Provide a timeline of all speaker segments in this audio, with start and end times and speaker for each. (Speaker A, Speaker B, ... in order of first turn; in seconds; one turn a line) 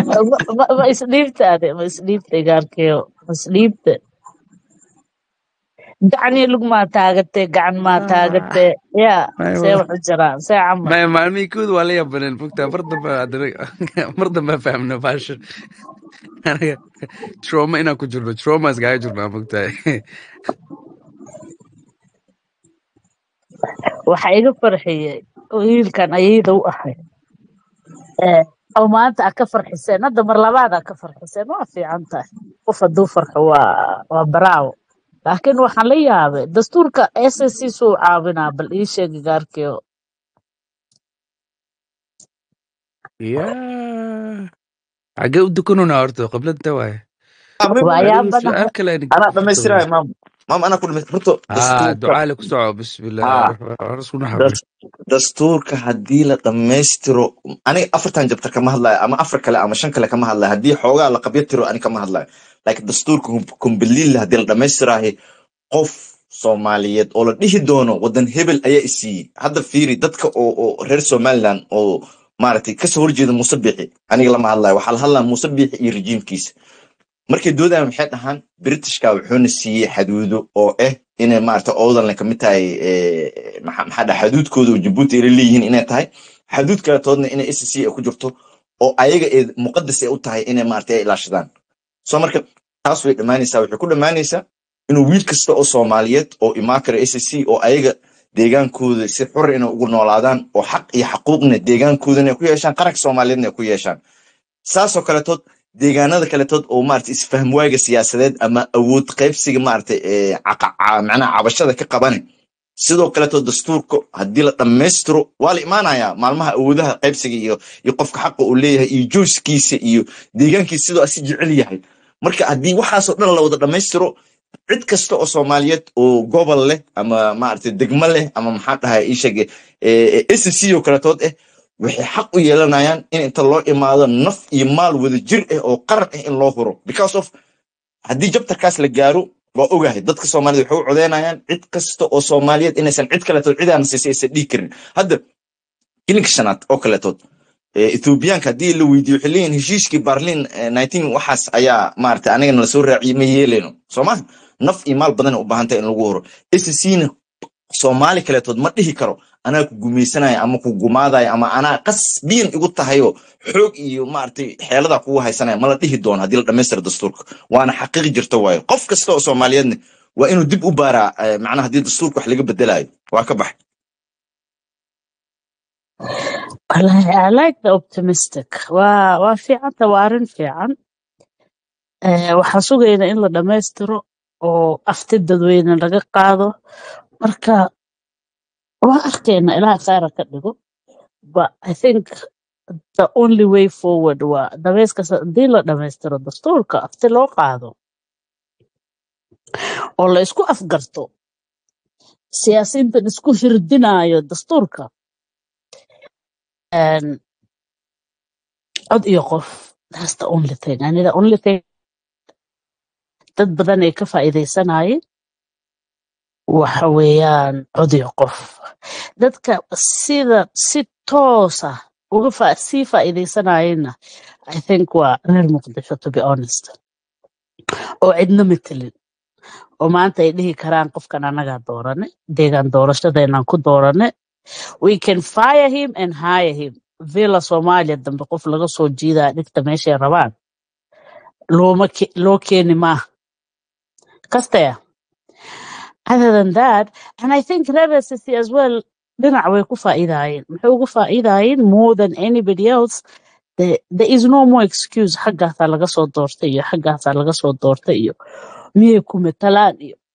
Speaker A: 0.1-4.0
Speaker A: 6.1-10.9
Speaker B: 8.0-8.6
Speaker B: 9.4-9.8
Speaker B: 10.8-15.4
Speaker B: 16.4-16.8
Speaker B: 17.4-19.7
Speaker A: 24.1-26.9
Speaker A: 28.2-33.6
Speaker A: 34.1-34.7
Speaker A: 35.3-39.8
Speaker B: 43.2-44.5
Speaker B: 45.2-47.0
Speaker C: 47.6-48.1
Speaker A: 47.8-48.6
Speaker B: 48.0-49.8
Speaker C: 49.1-52.2
Speaker B: 51.5-54.6
Speaker C: 53.2-53.5
Speaker C: 54.3-65.1
Speaker C: 65.7-76.5
Speaker C: 77.3-91.5
Speaker C: 92.0-104.0
Speaker C: 104.7-112.2
Speaker C: 112.8-124.1
Speaker C: 124.7-137.3
Speaker C: 138.1-145.2
Speaker C: 146.1-147.2
Speaker C: 147.8-157.1
Speaker C: 157.7-173.5
Speaker A: 176.7-180.7
Speaker A: 182.1-186.5
Speaker A: 187.2-187.6
Speaker A: 188.9-190.5
Speaker A: 191.3-192.1
Speaker A: 193.0-197.7
Speaker A: 200.0-201.1
Speaker A: 202.3-204.9
Speaker A: 206.7-207.2
Speaker A: 208.9-211.6
Speaker A: 213.4-215.0
Speaker A: 216.5-218.5
Speaker A: 219.2-223.9
Speaker A: 224.5-226.7
Speaker A: 228.1-228.9
Speaker A: 229.8-234.1
Speaker A: 234.8-240.3
Speaker A: 241.6-243.0
Speaker A: 244.3-244.8
Speaker A: 246.1-253.0
Speaker A: 253.6-258.1
Speaker A: 258.8-260.0